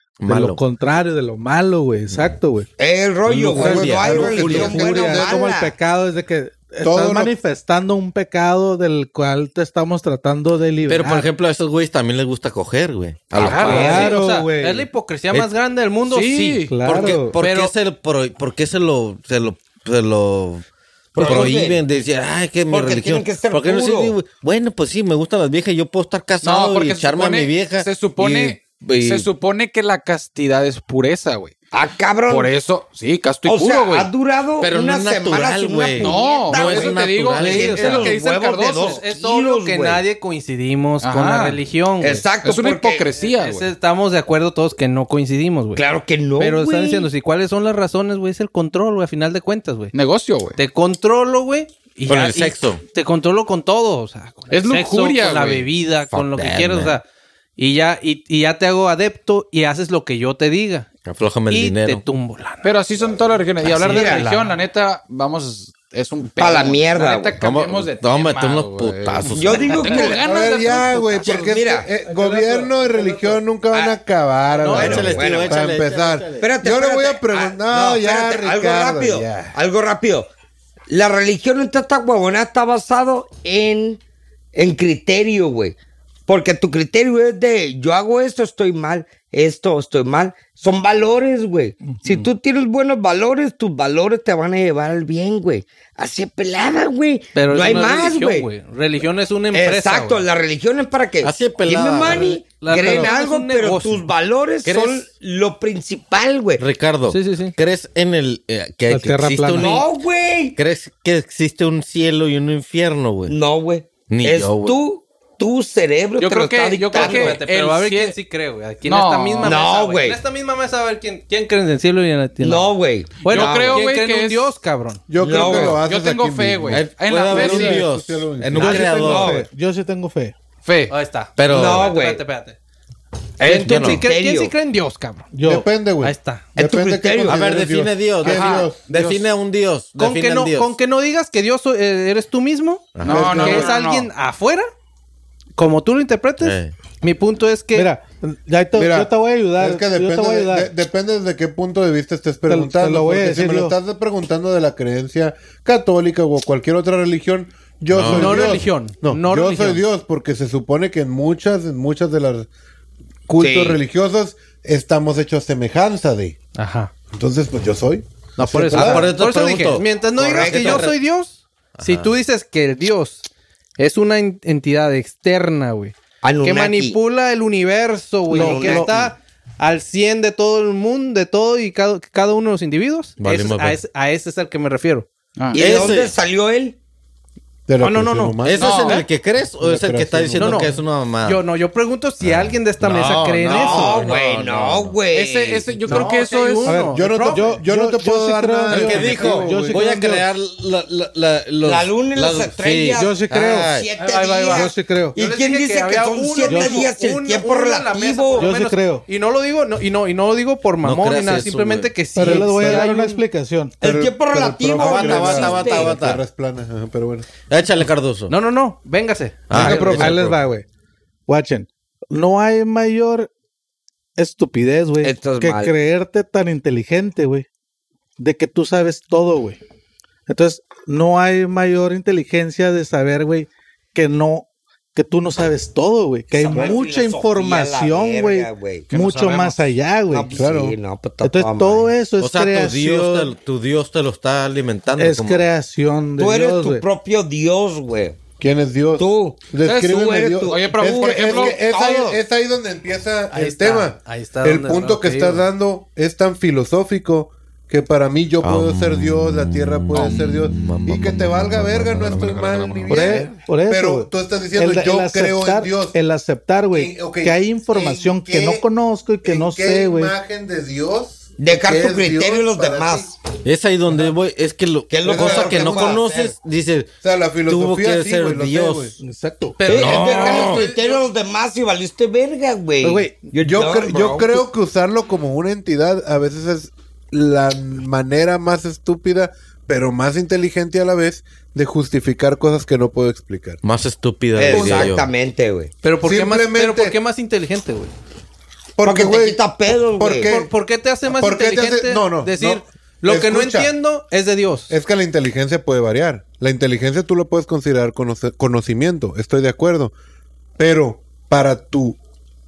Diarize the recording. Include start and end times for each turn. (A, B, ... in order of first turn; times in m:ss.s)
0:00.2-0:00.6 A
0:00.2-0:02.7 B
0:02.8-0:05.7 C
0:03.3-0:04.9 A
0:03.5-0:11.3 B
0:03.5-0:05.4 D
0:06.8-0:07.3 D
0:10.9-0:14.1 A
0:13.4-0:14.2 E
0:13.4-0:14.1 C
0:13.5-0:16.7 F
0:13.7-0:14.9 B
0:16.1-0:17.1 E
0:16.7-0:17.4 B
0:16.8-0:29.3 A
0:17.4-0:17.7 F
0:21.2-0:21.8 C
0:22.7-0:24.2 C
0:26.4-0:31.5 E
0:31.7-0:32.5 C
0:32.3-0:34.1 E
0:33.5-0:40.0 C
0:34.6-0:38.1 A
0:36.0-0:39.0 E
0:37.4-0:42.3 F
0:41.0-0:41.6 E
0:42.0-0:43.1 C
0:42.4-0:43.7 E
0:43.2-0:45.8 F
0:45.8-0:47.1 C
0:46.4-0:49.9 F
0:49.9-0:50.6 E
0:50.6-0:57.0 F
0:52.1-0:52.8 A
0:54.5-0:55.7 E
0:56.1-0:57.0 A
0:57.6-1:00.9 F
1:01.0-1:02.0 A
1:01.5-1:02.7 F
1:02.6-1:11.5 E
1:03.6-1:04.5 F
1:03.9-1:04.2 C
1:06.4-1:07.4 C
1:07.4-1:10.1 A
1:09.4-1:10.3 C
1:10.1-1:19.6 D
1:11.2-1:11.9 C
1:12.0-1:13.4 B
1:14.6-1:15.1 F
1:14.7-1:16.5 A
1:14.7-1:15.6 C
1:16.4-1:20.3 C
1:20.9-1:24.0 C
1:24.5-1:38.5 C
1:37.3-1:40.2 F
1:39.5-1:46.6 C
1:41.2-1:42.4 A
1:42.2-1:44.1 F
1:42.8-1:43.1 B
1:44.6-1:45.0 A
1:46.6-1:49.9 A
1:47.1-1:47.5 F
1:48.9-1:49.8 B
1:49.6-1:50.6 C
1:50.6-1:53.4 A
1:53.3-1:57.4 C
1:54.1-1:54.8 A
1:56.2-1:58.2 E
1:56.9-2:05.1 F
1:58.8-1:59.6 E
1:59.4-2:00.2 C
2:02.4-2:03.8 C
2:03.3-2:04.5 E
2:05.1-2:08.8 D
2:05.2-2:05.8 C
2:05.3-2:07.8 E
2:06.7-2:09.4 A
2:08.5-2:10.4 B
2:09.0-2:09.5 C
2:10.6-2:10.9 E
2:10.9-2:12.6 F
2:11.4-2:11.9 A
2:11.5-2:12.2 C
2:13.4-2:14.5 C
2:13.4-2:15.3 F
2:13.6-2:14.1 A
2:15.3-2:15.7 B
2:15.5-2:18.8 D
2:16.0-2:16.5 F
2:16.6-2:17.4 C
2:17.2-2:20.7 A
2:18.2-2:19.3 E
2:20.0-2:24.7 F
2:23.0-2:23.7 A
2:23.0-2:24.1 E
2:23.0-2:23.7 D
2:25.6-2:27.9 F
2:26.4-2:26.8 A
2:27.7-2:30.7 B
2:28.8-2:42.5 D
2:32.5-2:33.8 B
2:37.9-2:38.5 A
2:38.1-2:39.8 F
2:43.3-2:46.4 D
2:43.4-2:43.8 C
2:46.6-2:46.9 F
2:47.1-2:49.1 D
2:48.4-2:53.2 F
2:48.7-2:49.9 A
2:50.2-2:50.9 C
2:50.4-2:51.0 A
2:51.8-2:52.1 A
2:53.8-3:05.1 F
2:56.2-2:57.0 C
2:58.3-2:59.1 C
2:58.5-2:59.1 A
3:03.2-3:03.8 A
3:05.4-3:05.7 E
3:05.5-3:06.8 C
3:05.5-3:06.2 A
3:07.7-3:09.0 D
3:07.8-3:09.0 F
3:08.4-3:11.4 A
3:08.6-3:09.0 E
3:09.6-3:10.7 D
3:10.4-3:14.1 F
3:12.2-3:15.0 A
3:13.5-3:15.8 C
3:15.1-3:16.8 E
3:15.9-3:17.5 F
3:16.6-3:20.3 B
3:16.9-3:19.9 D
3:18.7-3:23.9 A
3:21.6-3:28.5 C
3:23.0-3:23.7 B
3:24.0-3:33.2 F
3:24.5-3:25.2 B
3:26.5-3:26.9 B
3:28.4-3:29.1 B
3:30.8-3:31.9 A
3:32.2-3:33.8 B
3:32.2-3:32.9 D
3:33.8-3:36.0 C
3:33.8-3:37.3 D
3:34.8-3:36.2 A
3:37.5-3:38.3 A
3:38.3-3:40.0 F
3:39.5-3:40.4 A
3:39.5-3:40.2 D
3:39.5-3:40.7 B
3:41.3-3:43.3 B
3:44.2-3:47.5 B
3:45.0-3:45.7 C
3:48.2-3:49.6 B
3:50.3-4:00.3 B
3:56.3-3:58.9 C
3:58.9-3:59.7 E
4:00.1-4:01.9 C
4:00.3-4:00.8 D
4:01.2-4:03.3 B
4:02.2-4:05.5 A
4:05.0-4:06.8 B
4:06.2-4:08.2 C
4:08.4-4:26.0 D
4:09.0-4:12.2 C
4:09.6-4:11.6 E
4:13.3-4:15.4 F
4:18.4-4:23.3 A
4:22.9-4:30.2 B
4:26.7-4:28.6 D
4:29.2-4:33.2 D
4:31.4-4:33.2 C
4:33.4-4:36.9 A
4:34.9-4:36.4 C
4:35.0-4:36.0 D
4:37.0-4:39.0 D
4:37.5-4:38.9 A
4:39.0-4:39.6 B
4:39.7-4:44.4 C
4:39.7-4:40.6 A
4:39.9-4:40.5 E
4:42.8-4:43.3 B
4:43.4-4:53.6 D
4:53.6-4:55.1 A
4:54.4-4:55.7 C
4:54.5-4:54.9 D
4:55.8-4:57.9 F
4:56.0-4:57.0 D
4:58.8-4:59.4 D
4:58.8-5:00.3 C
5:00.0-5:00.5 D
5:00.2-5:04.7 F
5:01.1-5:03.7 D
5:04.7-5:09.9 D
5:10.6-5:12.0 D